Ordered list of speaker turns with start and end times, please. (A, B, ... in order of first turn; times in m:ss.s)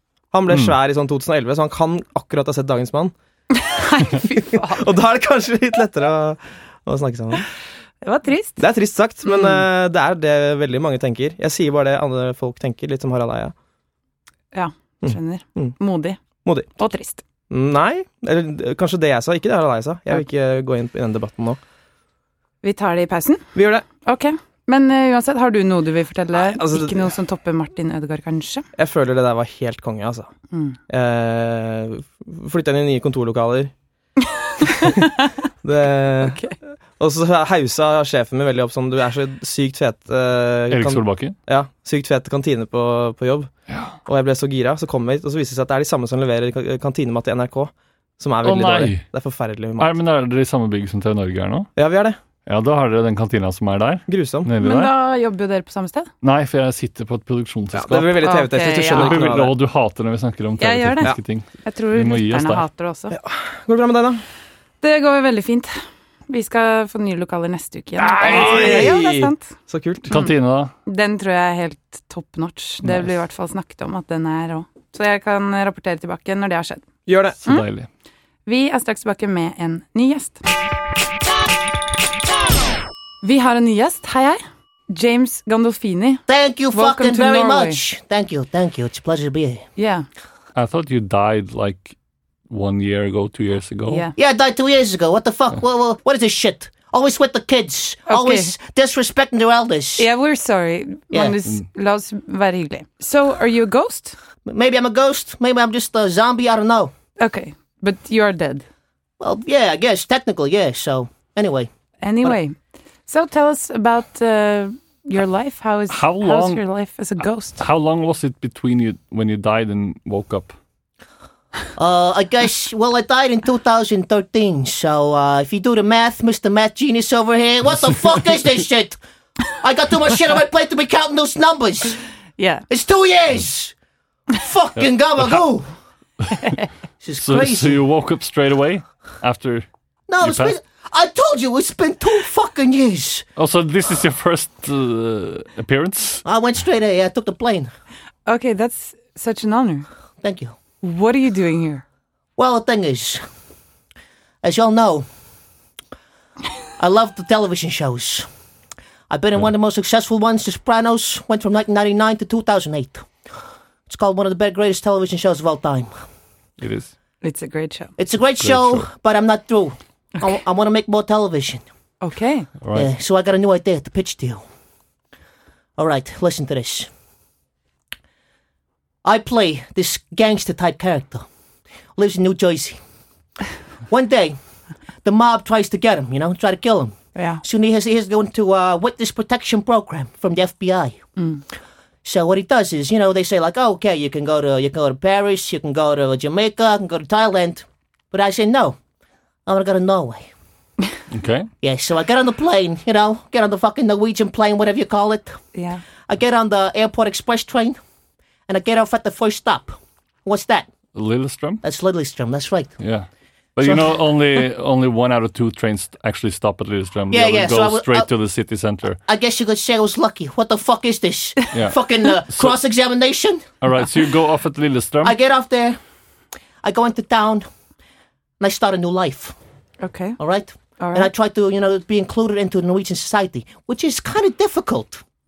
0:00.3-0:03.1 A
0:03.6-0:04.9 B
0:04.1-0:07.4 A
0:08.0-0:08.6 B
0:08.6-0:13.5 A
0:09.3-0:09.6 B
0:14.5-0:16.2 B
0:15.0-0:15.8 A
0:16.8-0:17.2 B
0:17.5-0:21.6 A
0:22.6-0:28.7 B
0:23.5-0:23.9 A
0:26.4-0:27.1 A
0:28.8-0:30.3 A
0:30.5-0:30.8 B
0:30.9-0:33.7 A
0:34.4-0:35.3 B
0:35.6-0:36.4 A
0:36.2-0:36.6 B
0:37.0-0:43.5 A
0:40.7-0:41.4 C
0:43.7-0:44.0 C
0:44.1-0:50.0 A
0:48.4-0:49.1 C
0:49.8-0:51.7 C
0:51.8-0:52.2 A
0:52.5-0:54.9 C
0:54.1-0:54.5 A
0:54.6-0:56.1 B
0:56.2-0:58.2 C
0:57.7-0:59.6 A
0:58.2-0:59.2 B
0:58.9-1:02.7 C
1:00.6-1:03.2 B
1:03.1-1:04.2 A
1:04.8-1:05.7 B
1:06.3-1:09.5 B
1:08.0-1:08.9 C
1:08.2-1:10.1 A
1:10.1-1:10.7 C
1:10.9-1:16.8 B
1:17.1-1:17.4 A
1:17.4-1:17.9 C
1:18.5-1:20.4 B
1:23.2-1:27.8 B
1:26.3-1:29.6 D
1:29.8-1:30.1 B
1:30.6-1:32.0 C
1:32.5-1:34.0 C
1:33.9-1:34.2 B
1:34.2-1:40.1 D
1:38.1-1:38.5 B
1:40.0-1:44.2 B
1:44.4-1:46.9 D
1:47.2-1:48.6 B
1:49.2-1:51.7 D
1:52.0-1:57.7 B
1:55.9-1:56.6 C
1:57.6-2:00.6 C
2:01.8-2:09.0 D
2:09.5-2:12.0 D
2:12.4-2:12.7 B
2:12.7-2:13.7 D
2:14.3-2:15.7 D
2:14.8-2:15.4 C
2:16.3-2:16.5 C
2:16.4-2:16.6 B
2:17.0-2:17.8 D
2:17.2-2:19.7 C
2:20.1-2:23.3 D
2:20.2-2:20.5 C
2:23.4-2:26.2 C
2:26.2-2:27.7 D
2:28.3-2:29.9 B
2:30.2-2:30.6 D
2:30.8-2:31.8 B
2:32.4-2:33.2 D
2:34.4-2:35.1 D
2:36.8-2:38.3 D
2:39.1-2:43.1 D
2:43.9-2:46.0 D
2:46.6-2:46.9 C
2:47.2-2:47.9 B
2:48.0-2:51.7 D
2:48.4-2:48.9 C
2:52.0-2:52.5 B
2:52.6-2:52.9 C
2:52.7-2:54.4 D
2:55.8-2:56.9 D
2:59.0-3:01.3 D
3:02.0-3:02.8 D
3:03.9-3:04.4 D
3:05.0-3:11.0 D
3:07.2-3:07.4 B
3:11.2-3:11.4 B
3:12.0-3:18.8 D
3:19.5-3:20.3 D
3:21.1-3:21.5 C
3:21.6-3:25.4 D
3:25.5-3:25.8 B
3:26.1-3:27.8 D
3:28.5-3:30.7 D
3:31.0-3:31.6 C
3:31.6-3:32.8 D
3:32.8-3:39.0 C
3:33.6-3:33.9 D
3:37.1-3:38.1 D
3:39.1-3:43.4 D
3:41.5-3:41.8 C
3:42.3-3:42.6 C
3:43.6-3:45.2 C
3:45.0-3:45.8 D
3:46.6-3:47.5 D
3:48.4-3:49.4 D
3:49.8-3:50.2 B
3:50.2-3:55.0 D
3:50.8-3:51.1 B